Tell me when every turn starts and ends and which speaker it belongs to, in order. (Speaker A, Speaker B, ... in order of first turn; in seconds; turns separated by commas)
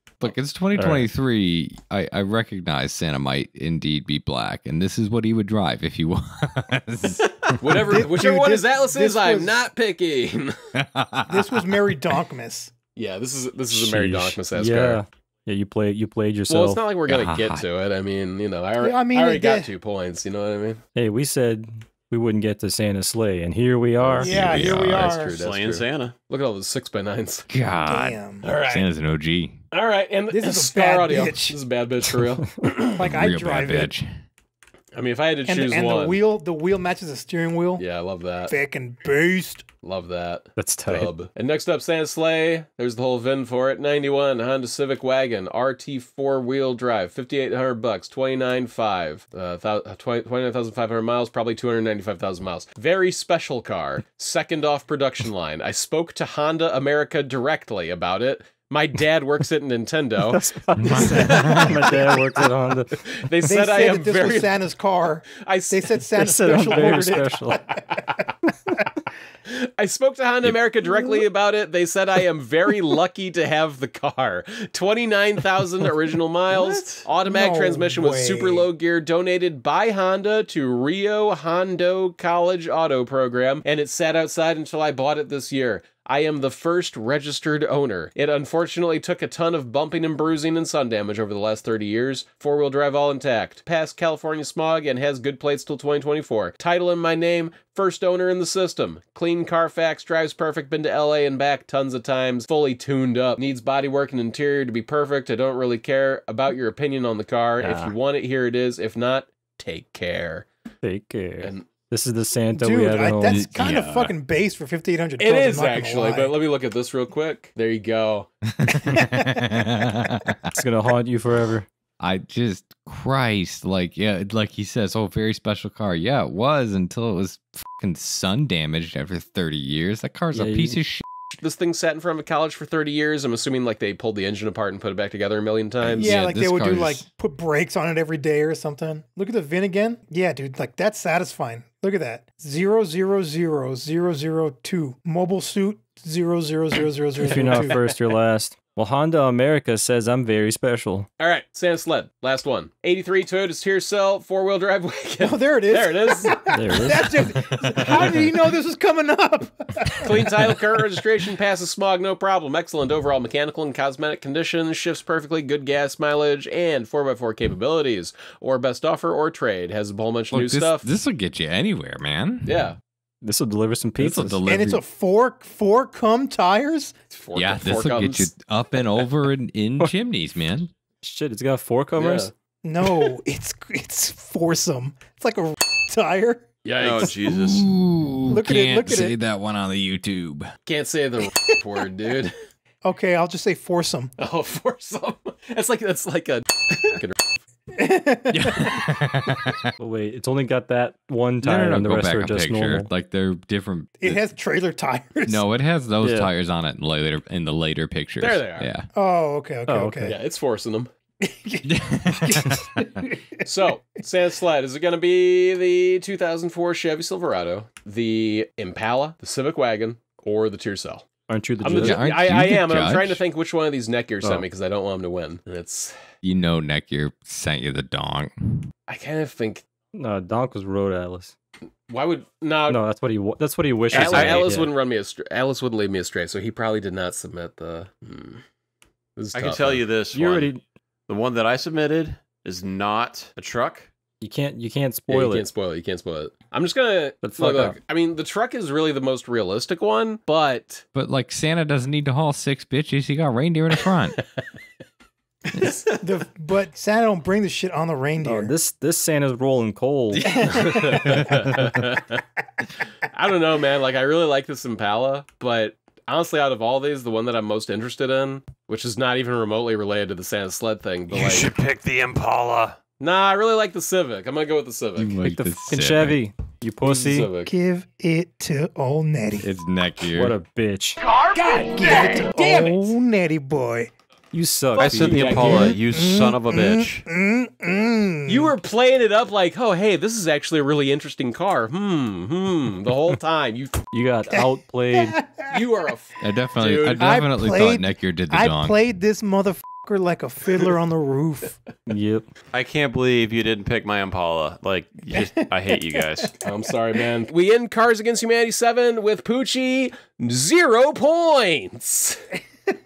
Speaker A: 0.2-7.2, Speaker B: 0.8-1.1, Speaker C: 7.5-10.6, Speaker D: 7.8-9.6, Speaker A: 10.7-11.8, Speaker D: 11.3-12.7, Speaker C: 12.9-15.0, Speaker B: 13.7-16.8, Speaker C: 16.5-20.8, Speaker A: 17.1-17.6, Speaker D: 18.8-19.7, Speaker B: 20.9-24.5, Speaker C: 24.0-27.5, Speaker A: 24.2-25.1, Speaker D: 24.2-25.4, Speaker E: 25.3-26.1, Speaker A: 27.5-29.6, Speaker D: 27.9-28.4, Speaker C: 28.4-28.9, Speaker C: 29.7-32.8, Speaker D: 30.3-31.6, Speaker D: 32.9-33.9, Speaker A: 33.0-34.2, Speaker C: 34.9-36.2, Speaker D: 35.5-37.8, Speaker C: 37.8-38.5, Speaker D: 38.4-39.6, Speaker C: 39.8-64.6, Speaker B: 40.5-41.1, Speaker B: 60.2-63.0, Speaker A: 60.8-61.8, Speaker D: 63.4-68.1, Speaker C: 65.4-66.0, Speaker B: 66.2-67.6, Speaker C: 69.5-110.5, Speaker E: 76.5-76.9, Speaker D: 77.2-78.7, Speaker B: 107.6-107.9, Speaker B: 110.8-113.5, Speaker C: 111.4-111.7, Speaker D: 112.5-116.3, Speaker A: 113.3-114.1, Speaker C: 115.2-118.3, Speaker A: 118.5-120.5, Speaker D: 118.8-119.4, Speaker B: 120.5-121.7, Speaker A: 122.0-131.0, Speaker B: 130.3-130.8, Speaker C: 131.4-136.1, Speaker A: 135.8-137.0, Speaker D: 136.0-147.9, Speaker B: 147.2-151.1, Speaker C: 147.4-147.9, Speaker C: 151.2-156.4, Speaker D: 155.2-160.8, Speaker B: 156.5-158.1, Speaker C: 160.0-170.9, Speaker A: 170.3-172.7, Speaker C: 172.4-172.8, Speaker B: 173.2-174.4, Speaker A: 174.0-174.8, Speaker D: 174.4-176.9, Speaker C: 177.1-178.3, Speaker A: 177.3-180.7, Speaker B: 181.0-182.3, Speaker C: 182.0-182.3, Speaker D: 182.6-186.4, Speaker C: 186.6-187.2, Speaker E: 186.8-187.7, Speaker A: 187.2-190.5, Speaker D: 188.2-189.2, Speaker C: 190.7-192.3, Speaker D: 192.8-194.1, Speaker C: 194.2-197.3, Speaker D: 197.7-198.8, Speaker A: 198.3-199.7, Speaker B: 199.8-202.9, Speaker A: 201.4-204.2, Speaker D: 204.0-205.4, Speaker A: 205.3-208.9, Speaker B: 206.0-206.3, Speaker C: 208.2-208.7, Speaker D: 208.9-210.2, Speaker B: 209.7-210.2, Speaker C: 210.1-210.9, Speaker D: 211.2-213.4, Speaker A: 211.6-212.8, Speaker C: 213.4-221.1, Speaker B: 221.3-222.1, Speaker C: 221.6-225.9, Speaker A: 221.8-223.2, Speaker A: 226.2-228.7, Speaker C: 228.9-229.6, Speaker B: 229.9-231.3, Speaker C: 231.9-232.8, Speaker B: 232.7-234.7, Speaker E: 233.9-234.6, Speaker C: 233.9-238.4, Speaker C: 239.2-239.9, Speaker E: 239.3-240.5, Speaker B: 240.1-240.6, Speaker E: 241.1-243.9, Speaker B: 244.2-245.5, Speaker C: 245.1-250.8, Speaker B: 247.2-247.8, Speaker A: 250.9-254.2, Speaker D: 255.9-258.5, Speaker B: 258.2-260.4, Speaker D: 260.2-261.2, Speaker C: 260.3-262.2, Speaker C: 263.1-271.5, Speaker C: 273.0-275.1, Speaker A: 275.0-276.2, Speaker B: 275.2-277.3, Speaker C: 276.8-277.5, Speaker D: 277.4-279.5, Speaker A: 279.4-280.4, Speaker B: 280.1-281.0, Speaker C: 281.3-281.9, Speaker D: 281.7-283.9, Speaker B: 282.4-282.9, Speaker B: 284.3-285.7, Speaker C: 284.7-285.8, Speaker E: 284.8-287.0, Speaker D: 285.6-288.5, Speaker C: 288.3-293.8, Speaker B: 293.9-295.2, Speaker D: 294.9-295.6, Speaker C: 295.4-297.1, Speaker A: 296.2-298.8, Speaker D: 297.0-301.6, Speaker B: 301.9-302.2, Speaker E: 302.5-306.4, Speaker D: 305.1-305.4, Speaker C: 306.4-312.2